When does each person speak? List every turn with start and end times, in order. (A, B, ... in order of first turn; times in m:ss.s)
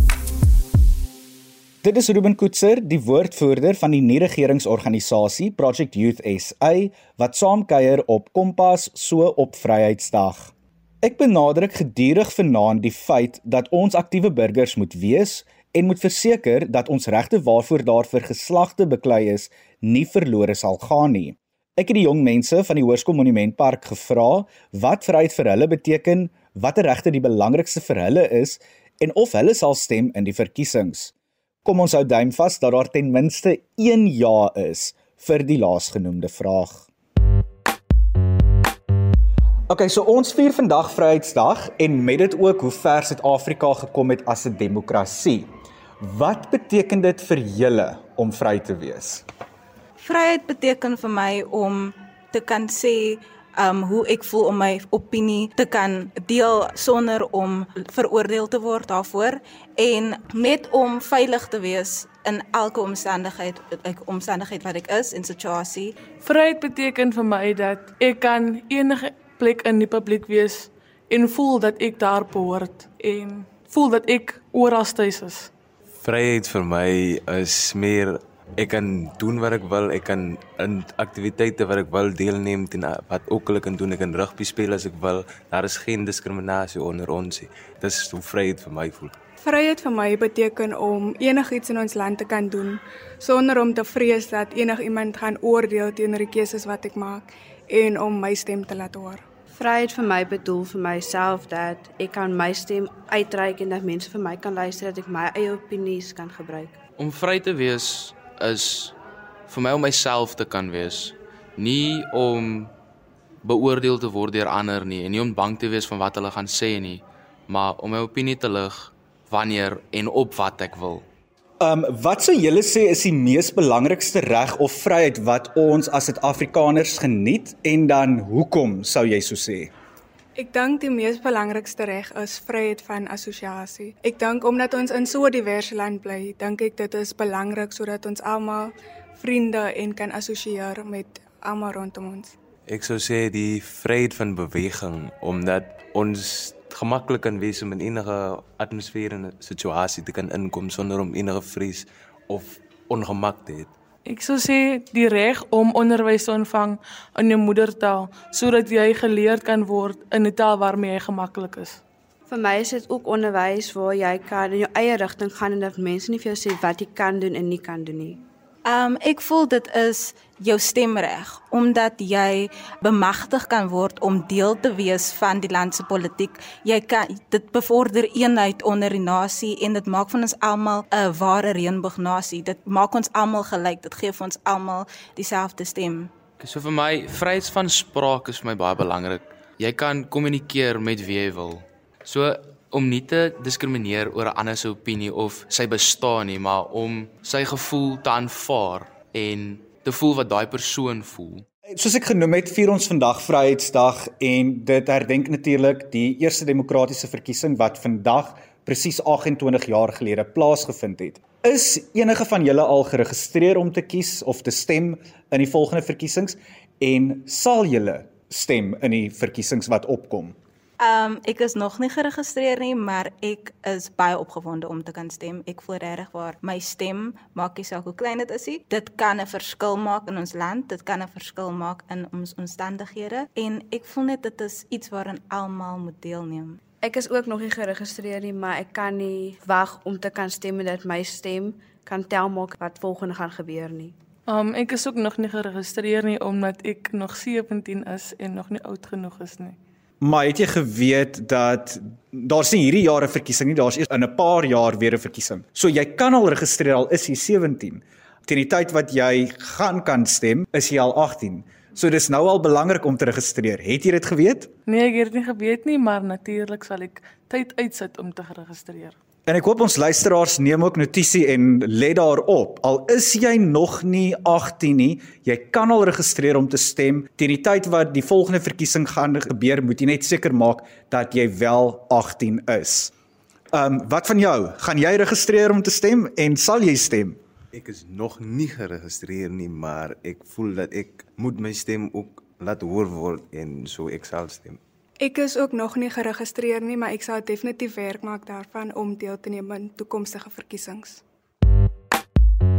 0:01.8-0:36.9 A
0:39.7-0:49.2 A
0:50.0-1:05.9 B
1:06.2-1:15.5 C
1:16.0-1:29.2 D
1:29.4-1:39.2 E
1:39.6-1:46.8 F
1:47.0-1:49.0 G
1:49.5-1:52.7 G
1:53.4-2:01.1 G
2:01.6-2:09.7 A
2:10.4-2:22.4 E
2:22.7-2:33.7 D
2:34.1-2:41.8 C
2:42.3-2:48.2 F
2:48.6-3:06.1 B
3:06.4-3:21.4 G
3:21.7-3:40.4 A
3:40.8-3:56.6 B
3:56.8-4:03.9 F
4:04.3-4:09.6 C
4:10.0-4:24.5 A
4:24.7-4:29.0 C
4:29.2-4:42.9 A
4:43.5-4:47.2 A
4:47.5-4:54.6 D
4:55.0-5:01.0 E